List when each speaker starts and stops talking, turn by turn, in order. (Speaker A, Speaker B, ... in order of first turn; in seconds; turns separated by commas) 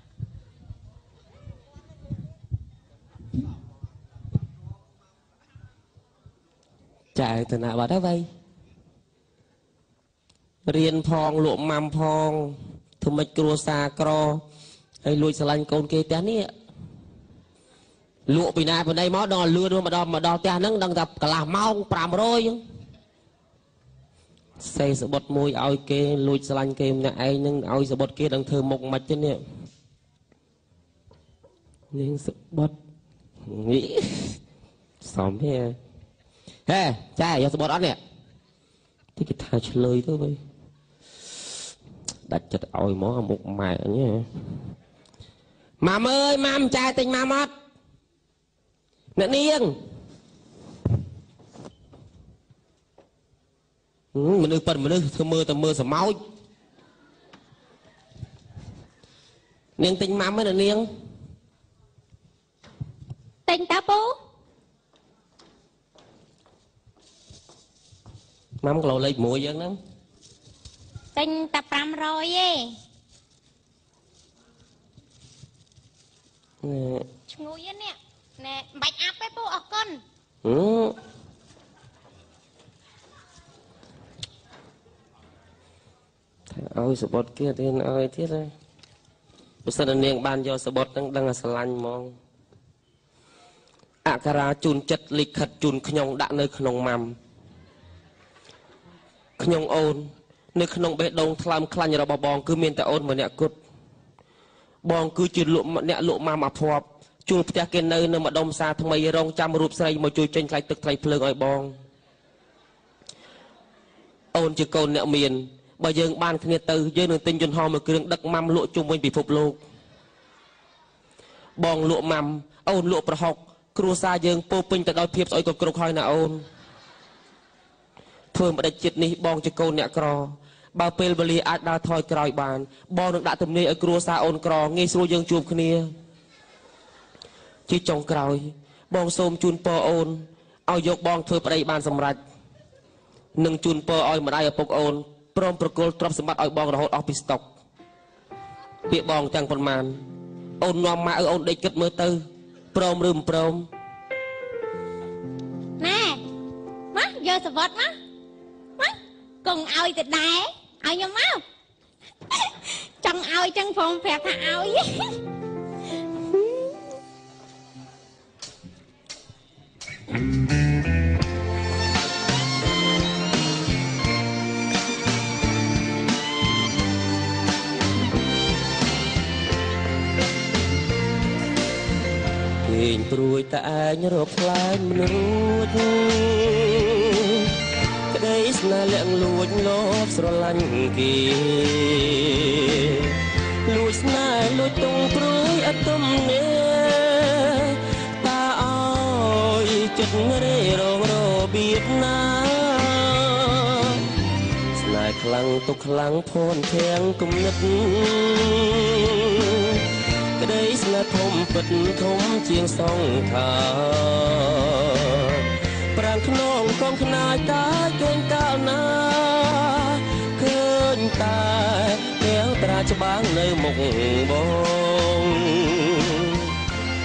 Speaker A: 7.1-8.2, Speaker A: 10.7-14.4, Speaker A: 15.0-16.5, Speaker A: 18.3-22.6, Speaker A: 24.6-29.4, Speaker A: 31.9-32.7, Speaker A: 33.5-34.4, Speaker A: 35.0-35.8, Speaker A: 36.7-38.0, Speaker A: 39.1-40.4, Speaker A: 42.3-44.3, Speaker A: 45.8-47.5, Speaker A: 49.1-49.7, Speaker A: 54.1-56.1, Speaker A: 59.8-60.9, Speaker B: 63.5-64.1, Speaker A: 68.6-69.8, Speaker B: 71.2-72.7, Speaker A: 76.6-77.0, Speaker B: 77.3-80.0, Speaker A: 80.4-81.0, Speaker A: 86.5-88.5, Speaker A: 89.6-92.1, Speaker A: 94.0-97.2, Speaker A: 99.4-103.5, Speaker A: 104.8-111.7, Speaker A: 114.3-119.6, Speaker A: 121.6-126.4, Speaker A: 128.3-135.9, Speaker A: 137.7-142.2, Speaker A: 143.4-147.4, Speaker A: 148.9-150.0, Speaker A: 150.6-152.2, Speaker A: 152.7-153.7, Speaker B: 155.8-156.2, Speaker B: 156.9-157.9, Speaker B: 158.8-161.4, Speaker B: 162.3-165.2, Speaker A: 182.6-187.5, Speaker A: 188.1-204.0, Speaker A: 204.7-209.8, Speaker A: 210.3-226.5